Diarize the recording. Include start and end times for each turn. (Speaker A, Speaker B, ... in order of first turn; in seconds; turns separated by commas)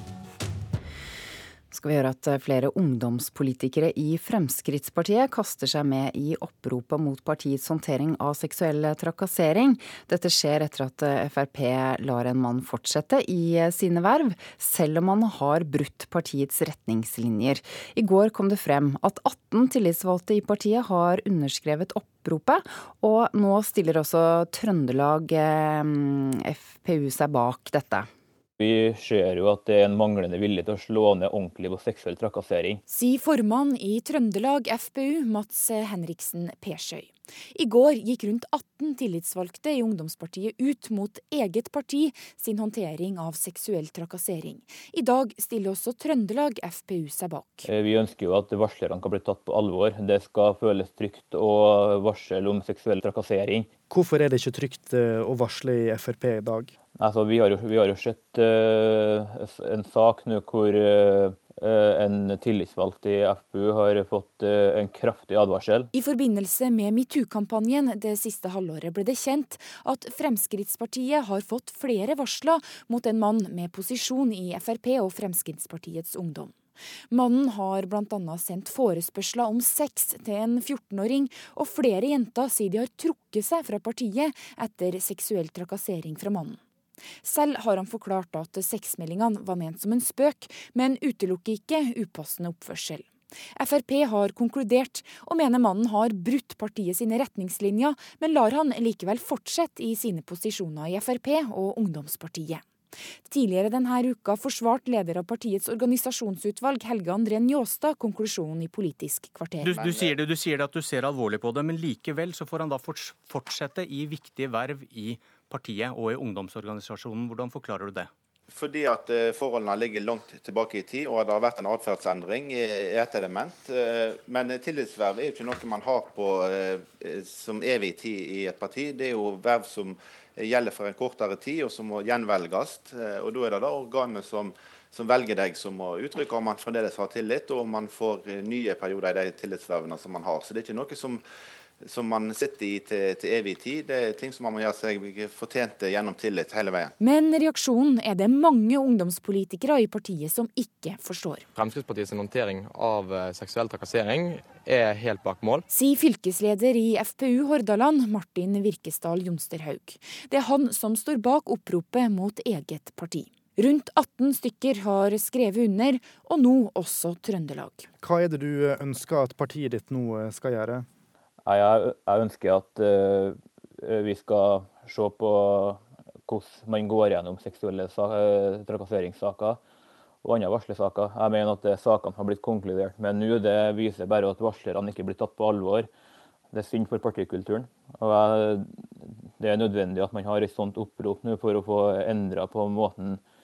Speaker A: 1.7-28.1, Speaker B: 28.6-32.8, Speaker C: 32.9-47.7, Speaker B: 47.7-53.7, Speaker D: 53.9-56.7, Speaker B: 57.0-65.9, Speaker C: 65.9-76.6, Speaker C: 77.1-86.6, Speaker C: 87.2-102.7, Speaker C: 103.3-109.8, Speaker E: 109.6-118.1, Speaker F: 109.8-110.1, Speaker F: 118.5-141.2, Speaker F: 141.8-146.9, Speaker C: 147.0-151.4, Speaker G: 151.6-155.7, Speaker C: 155.7-167.9, Speaker D: 168.0-170.9, Speaker B: 171.5-179.6, Speaker B: 180.2-185.9, Speaker B: 186.5-193.2